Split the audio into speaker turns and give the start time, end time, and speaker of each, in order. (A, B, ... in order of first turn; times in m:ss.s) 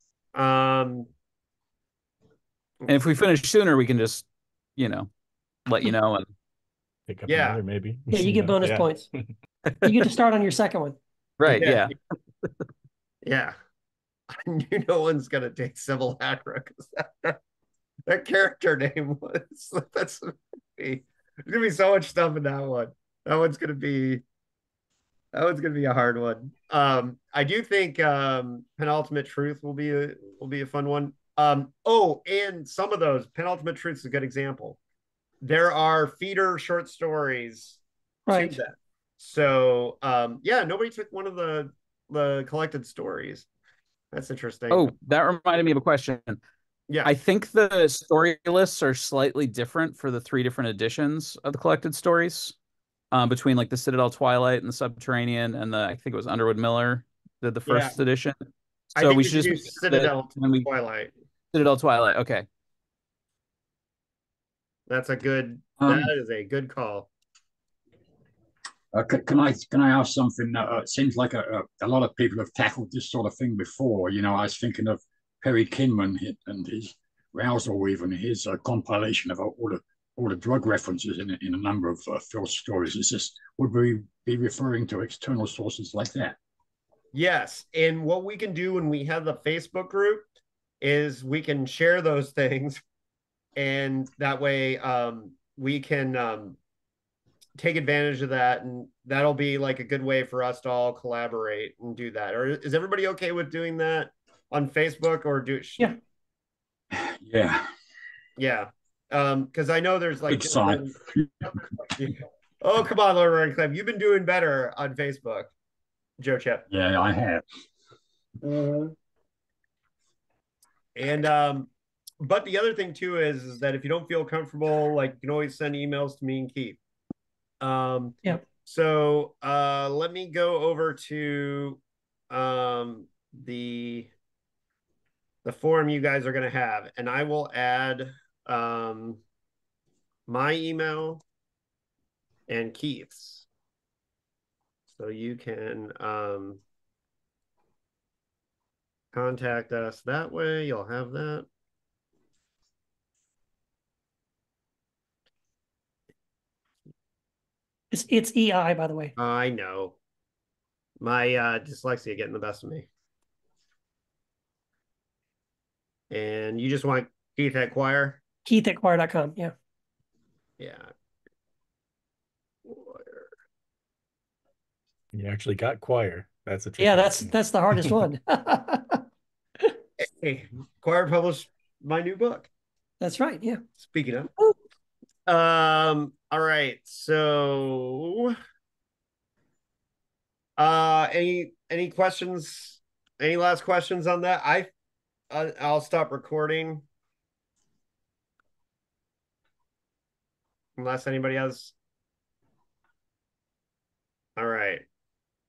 0:00.4-0:01.1 A
0:02.9-0:05.1 B
0:05.7-0:06.3 B
0:07.1-0:09.0 C
0:07.3-0:07.6 A
0:08.1-0:09.1 D
0:09.7-0:10.0 B
0:09.8-0:11.0 D
0:11.4-0:11.9 B
0:11.5-0:11.9 A
0:13.2-0:13.6 A
0:14.3-0:17.4 A
0:18.1-0:24.2 A
0:25.3-0:34.8 A
0:35.4-0:43.5 A
0:38.3-0:38.6 D
0:44.1-0:44.9 A
0:44.7-0:46.4 B
0:47.0-0:52.6 B
0:53.1-0:58.4 B
0:57.7-0:58.0 A
0:58.9-1:00.7 B
0:59.0-1:01.1 A
1:01.5-1:02.5 B
1:04.9-1:07.1 A
1:05.8-1:06.1 E
1:08.9-1:26.4 E
1:27.1-1:30.2 A
1:30.8-1:32.8 A
1:33.6-1:36.6 A
1:37.6-1:46.0 A
1:46.9-1:47.7 E
1:48.4-1:51.0 A
1:50.3-1:51.5 E
1:52.0-1:55.5 A
1:56.2-1:56.6 A
1:56.7-1:57.4 E
1:58.4-1:58.9 A
2:01.0-2:06.8 A
2:07.6-2:14.1 A
2:15.4-2:19.2 A
2:20.3-2:21.2 A
2:22.5-2:23.5 A
2:25.0-2:26.6 A
2:29.1-2:31.5 A
2:37.9-2:39.1 D
2:39.2-2:40.0 A
2:41.0-2:42.9 A
2:46.1-2:48.2 A
2:48.5-2:49.5 D
2:50.6-2:50.9 A
2:52.6-2:53.3 A
2:55.1-2:57.3 C
2:56.8-2:59.0 D
3:00.0-3:02.5 A
3:03.0-3:03.6 D
3:03.8-3:04.3 A
3:05.3-3:08.4 A
3:10.6-3:14.7 A
3:15.3-3:16.8 A
3:20.8-3:21.7 A
3:24.4-3:24.8 A